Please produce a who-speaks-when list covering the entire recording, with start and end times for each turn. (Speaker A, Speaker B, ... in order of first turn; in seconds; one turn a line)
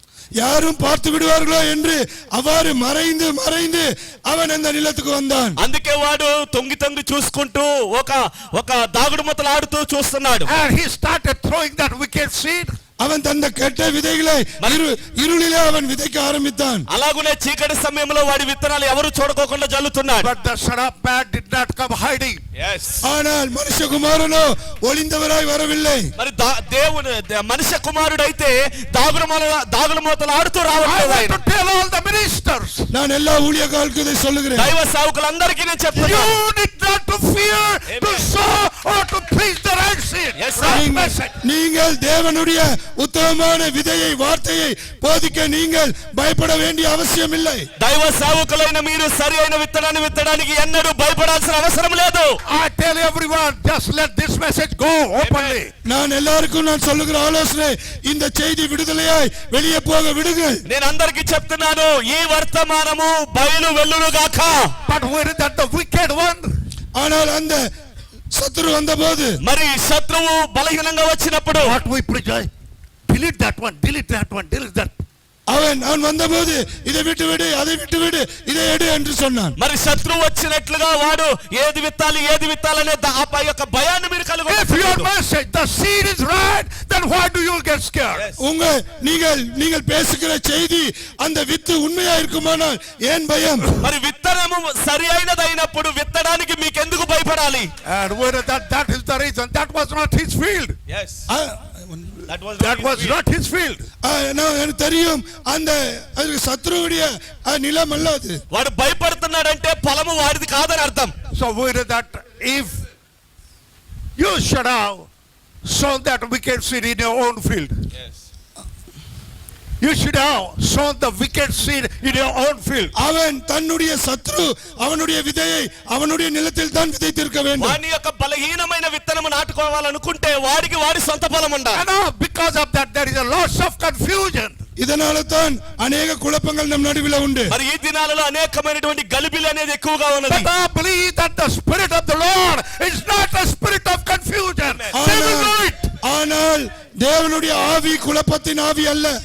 Speaker A: 0.4-5.6
Speaker B: 5.6-10.5
Speaker C: 10.4-12.7
Speaker A: 13.0-16.9
Speaker B: 16.9-20.3
Speaker C: 20.2-22.4
Speaker B: 22.6-23.0
Speaker A: 23.0-26.1
Speaker B: 26.2-31.4
Speaker C: 30.8-32.9
Speaker A: 32.9-34.7
Speaker B: 34.6-36.4
Speaker C: 35.9-41.4
Speaker B: 37.9-38.3
Speaker B: 40.4-40.8
Speaker A: 40.6-47.7
Speaker B: 47.8-52.3
Speaker C: 52.5-55.7
Speaker B: 55.2-55.6
Speaker A: 55.9-60.6
Speaker B: 60.7-64.7
Speaker C: 64.8-66.5
Speaker A: 67.0-67.6
Speaker A: 68.3-69.3
Speaker B: 69.4-71.8
Speaker C: 71.6-72.5
Speaker C: 73.1-75.0
Speaker A: 75.5-79.5
Speaker B: 79.6-85.1
Speaker C: 84.5-88.3
Speaker A: 88.4-93.7
Speaker B: 93.8-97.7
Speaker C: 97.8-100.8
Speaker B: 100.9-101.2
Speaker A: 101.3-102.3
Speaker B: 102.3-103.2
Speaker C: 102.6-103.8
Speaker A: 104.0-108.4
Speaker B: 108.5-111.1
Speaker C: 111.3-112.8
Speaker C: 114.2-115.1
Speaker C: 115.6-117.8
Speaker C: 119.8-122.9
Speaker A: 123.0-127.8
Speaker B: 127.6-131.9
Speaker C: 131.7-134.6
Speaker A: 134.8-137.6
Speaker B: 137.5-140.5
Speaker C: 140.3-145.9
Speaker A: 144.9-149.2